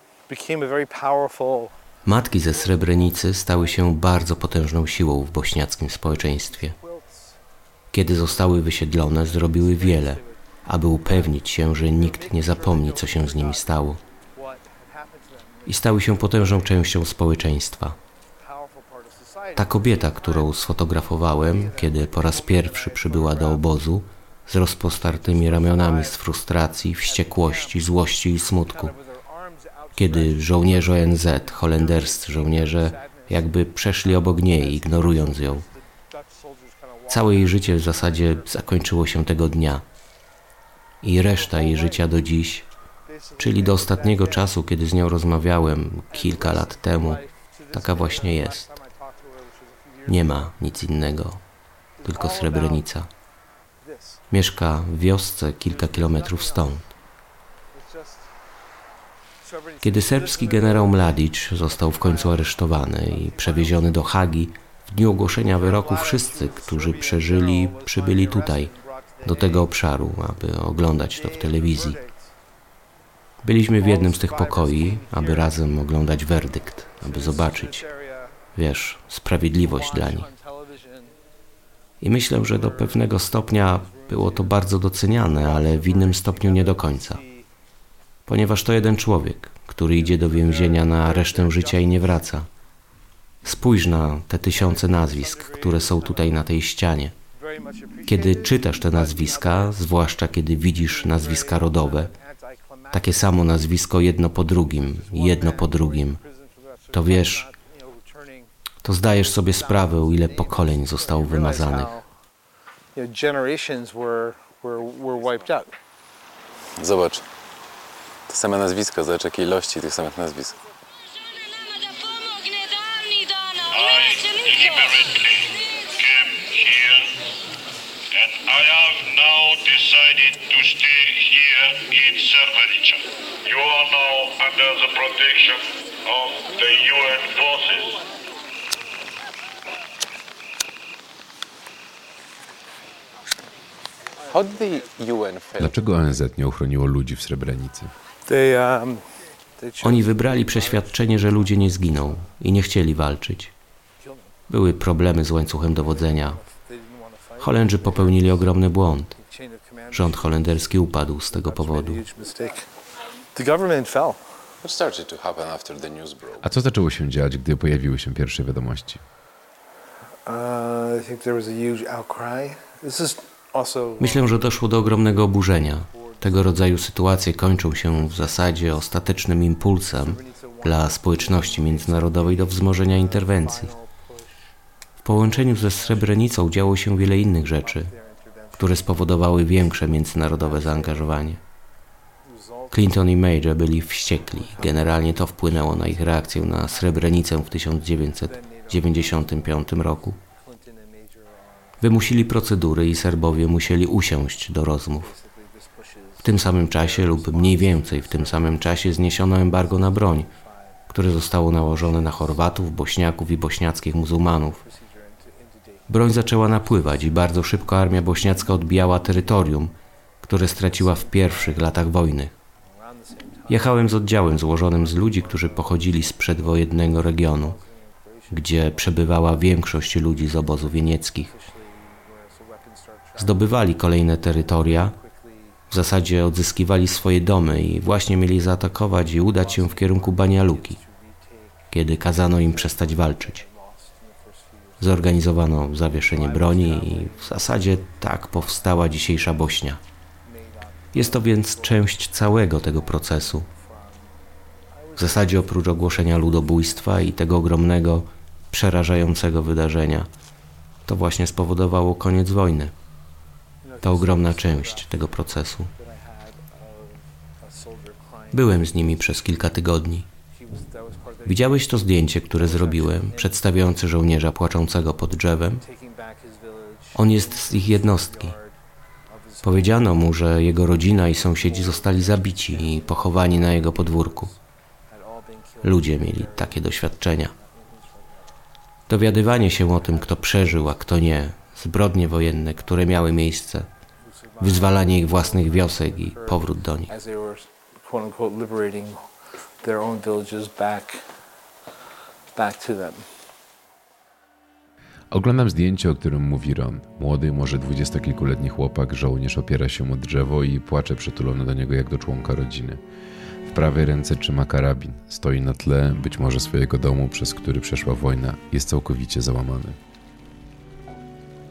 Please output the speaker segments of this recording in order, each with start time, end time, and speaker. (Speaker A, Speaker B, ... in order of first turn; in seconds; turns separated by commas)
Speaker A: 0.3-1.7, Speaker B: 2.0-6.8, Speaker A: 2.4-4.7, Speaker A: 6.0-7.4, Speaker B: 7.9-14.0, Speaker A: 8.9-10.4, Speaker A: 11.1-16.8, Speaker B: 15.7-18.0, Speaker A: 18.4-23.7, Speaker B: 19.6-28.9, Speaker A: 24.9-26.3, Speaker A: 27.0-38.9, Speaker B: 29.9-35.6, Speaker B: 37.1-39.9, Speaker B: 41.0-42.6, Speaker A: 41.2-42.3, Speaker A: 43.0-44.6, Speaker B: 43.4-48.7, Speaker A: 46.1-50.5, Speaker B: 50.1-51.4, Speaker A: 52.0-52.9, Speaker B: 52.0-53.1, Speaker A: 53.8-54.2, Speaker B: 54.3-56.9, Speaker A: 55.7-56.9, Speaker A: 57.7-58.3, Speaker A: 59.4-64.1, Speaker B: 59.8-68.7, Speaker A: 65.3-69.7, Speaker B: 69.2-72.0, Speaker A: 71.0-72.3, Speaker B: 73.4-77.8, Speaker A: 73.8-75.6, Speaker A: 77.0-78.4, Speaker B: 78.5-80.3, Speaker A: 79.6-81.1, Speaker B: 82.0-87.2, Speaker A: 82.3-87.5, Speaker B: 88.3-92.5, Speaker A: 90.0-92.2, Speaker B: 93.4-97.1, Speaker A: 94.5-96.5, Speaker A: 97.3-99.9, Speaker B: 98.1-102.1, Speaker A: 100.7-103.7, Speaker B: 102.9-106.2, Speaker A: 104.6-108.5, Speaker B: 106.9-107.5, Speaker B: 108.8-112.0, Speaker A: 109.2-112.1, Speaker A: 112.9-115.8, Speaker C: 116.8-117.2, Speaker C: 118.3-120.6, Speaker D: 123.6-127.3, Speaker D: 128.1-138.1, Speaker C: 144.3-146.2, Speaker E: 145.6-147.9, Speaker A: 148.3-152.3, Speaker B: 149.8-153.5, Speaker A: 154.0-154.3, Speaker B: 154.5-156.4, Speaker A: 155.5-158.5, Speaker B: 157.4-159.1, Speaker A: 159.1-160.7, Speaker B: 159.9-162.0, Speaker A: 161.3-162.7, Speaker A: 163.3-164.2, Speaker C: 164.6-166.5, Speaker E: 166.4-169.0, Speaker A: 170.3-174.2, Speaker B: 174.0-183.7, Speaker A: 175.8-176.7, Speaker A: 177.7-178.8, Speaker A: 179.9-184.5, Speaker B: 185.0-187.9, Speaker A: 185.2-186.6, Speaker A: 187.3-191.2, Speaker B: 188.6-191.4, Speaker A: 192.2-193.1, Speaker B: 192.7-200.2, Speaker A: 194.1-197.4, Speaker A: 198.2-202.2, Speaker B: 201.8-205.1, Speaker A: 204.9-212.6, Speaker B: 206.2-210.3, Speaker B: 210.9-214.6, Speaker A: 214.3-218.7, Speaker B: 215.9-222.3, Speaker A: 220.6-221.8, Speaker A: 222.6-235.9, Speaker B: 223.5-227.6, Speaker B: 228.3-231.3, Speaker B: 233.2-234.9, Speaker B: 235.7-240.8, Speaker A: 239.1-245.3, Speaker B: 241.7-243.4, Speaker B: 244.8-249.8, Speaker A: 245.8-249.3, Speaker A: 250.2-254.1, Speaker B: 250.9-253.5, Speaker A: 254.7-257.1, Speaker B: 255.0-260.1, Speaker B: 260.9-262.7, Speaker A: 263.6-265.0, Speaker B: 263.8-265.7, Speaker A: 265.7-269.0, Speaker B: 268.3-270.1, Speaker A: 270.3-273.6, Speaker B: 271.3-275.6, Speaker A: 275.6-278.6, Speaker B: 276.9-278.4, Speaker A: 279.1-288.4, Speaker B: 279.4-284.3, Speaker B: 285.6-287.3, Speaker B: 288.9-293.7, Speaker A: 289.3-291.3, Speaker A: 294.0-299.0, Speaker B: 294.4-296.9, Speaker A: 299.6-301.1, Speaker A: 302.4-303.1, Speaker E: 305.1-312.8, Speaker E: 313.5-319.8